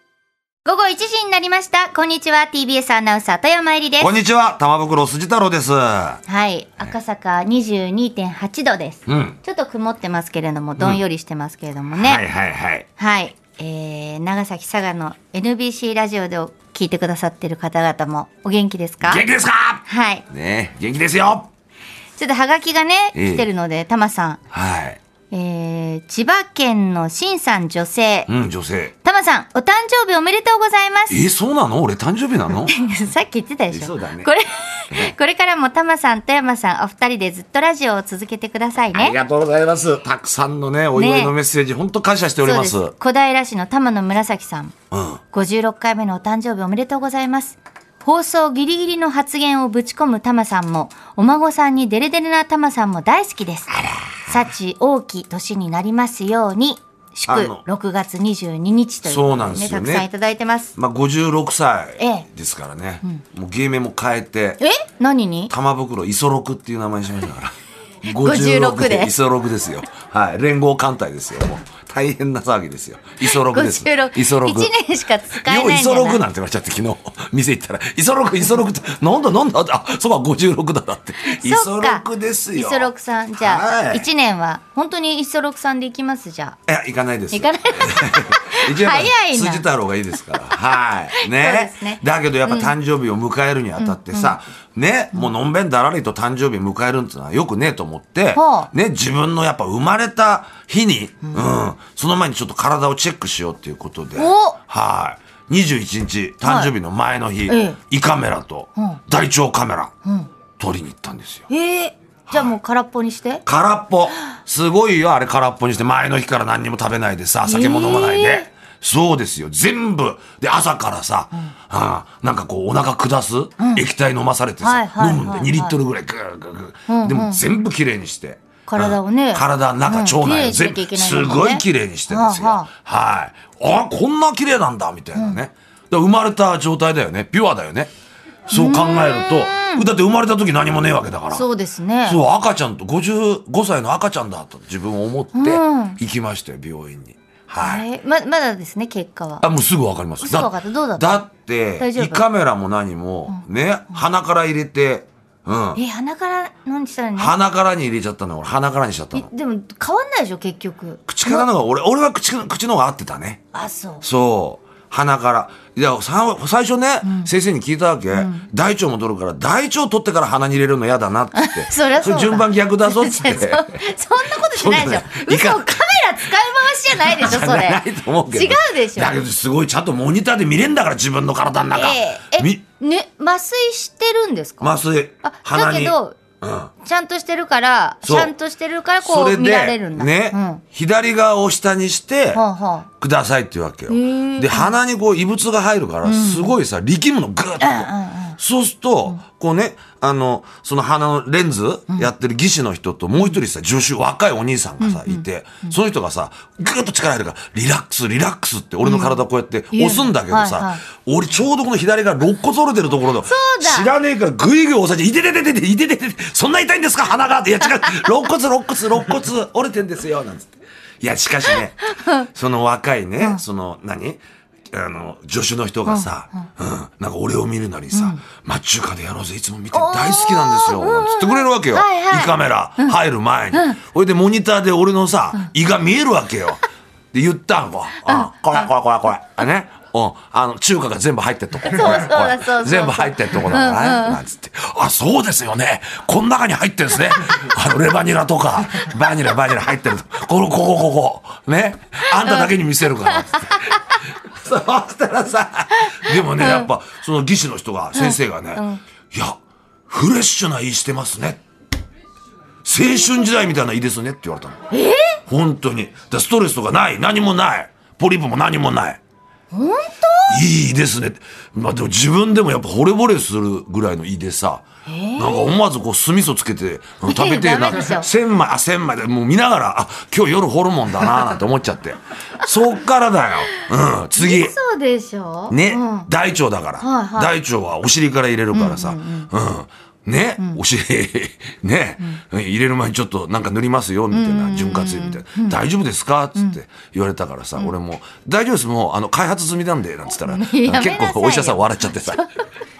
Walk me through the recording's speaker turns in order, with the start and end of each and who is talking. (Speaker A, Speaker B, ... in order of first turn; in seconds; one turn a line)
Speaker A: 0.6-4.2
Speaker B: 4.0-6.2
Speaker A: 6.2-12.2
Speaker B: 9.1-9.4
Speaker B: 12.0-12.9
Speaker A: 13.0-19.2
Speaker B: 19.0-21.5
Speaker A: 19.9-20.2
Speaker A: 22.2-24.4
Speaker B: 23.1-23.5
Speaker B: 24.5-25.0
Speaker A: 25.3-28.3
Speaker B: 28.3-28.9
Speaker A: 29.0-31.2
Speaker B: 31.1-32.7
Speaker A: 32.7-39.1
Speaker B: 33.7-34.3
Speaker B: 38.9-42.9
Speaker A: 40.9-41.4
Speaker A: 42.4-44.7
Speaker B: 44.9-45.2
Speaker A: 45.3-60.7
Speaker B: 53.7-54.3
Speaker B: 57.3-57.6
Speaker B: 59.0-60.1
Speaker B: 60.8-64.6
Speaker A: 62.0-62.3
Speaker A: 64.6-65.5
Speaker B: 65.5-74.7
Speaker A: 68.0-69.1
Speaker A: 73.2-76.2
Speaker B: 75.3-84.1
Speaker A: 81.2-86.6
Speaker B: 86.7-109.9
Speaker A: 87.3-89.7
Speaker A: 91.1-92.7
Speaker A: 93.8-94.4
Speaker A: 98.3-98.7
Speaker A: 104.2-104.6
Speaker A: 106.4-106.7
Speaker A: 107.5-107.8
Speaker A: 110.0-110.3
Speaker B: 110.6-111.5
Speaker A: 111.5-113.4
Speaker B: 112.3-112.5
Speaker B: 113.4-137.9
Speaker A: 117.4-118.5
Speaker A: 123.6-123.8
Speaker A: 124.6-125.8
Speaker A: 126.9-127.4
Speaker A: 128.7-132.7
Speaker A: 135.1-135.4
Speaker B: 138.5-141.5
Speaker A: 138.5-139.8
Speaker A: 141.3-142.2
Speaker B: 142.0-147.8
Speaker A: 145.3-146.0
Speaker A: 147.6-149.4
Speaker B: 149.4-155.8
Speaker A: 150.2-151.2
Speaker A: 151.8-152.2
Speaker A: 155.7-157.3
Speaker B: 157.2-159.3
Speaker A: 159.1-161.5
Speaker B: 161.1-163.4
Speaker A: 163.5-164.0
Speaker B: 164.0-173.8
Speaker A: 167.0-167.3
Speaker A: 168.1-168.5
Speaker A: 171.3-179.2
Speaker B: 174.4-175.8
Speaker B: 176.3-182.6
Speaker A: 181.7-186.2
Speaker B: 184.6-186.7
Speaker A: 186.8-190.6
Speaker B: 188.0-188.3
Speaker B: 189.0-192.4
Speaker A: 192.3-192.9
Speaker B: 193.0-236.6
Speaker A: 193.9-194.8
Speaker A: 196.0-196.5
Speaker A: 197.6-198.4
Speaker A: 204.8-205.7
Speaker A: 208.8-210.8
Speaker A: 213.2-213.9
Speaker A: 221.8-222.3
Speaker A: 225.8-226.5
Speaker A: 227.9-228.2
Speaker A: 229.7-233.0
Speaker A: 233.5-233.8
Speaker B: 237.1-261.4
Speaker A: 238.0-238.7
Speaker A: 241.7-244.2
Speaker A: 252.1-252.5
Speaker A: 253.0-254.0
Speaker A: 255.8-256.7
Speaker A: 257.9-258.8
Speaker B: 262.6-264.6
Speaker A: 262.8-263.3
Speaker A: 264.7-265.2
Speaker B: 265.3-269.0
Speaker A: 269.5-270.4
Speaker B: 270.3-274.6
Speaker A: 274.9-275.5
Speaker B: 275.2-284.6
Speaker A: 277.1-278.1
Speaker A: 284.1-286.1
Speaker B: 285.5-302.2
Speaker A: 286.8-287.3
Speaker A: 288.5-289.3
Speaker A: 294.1-295.6
Speaker A: 300.2-302.4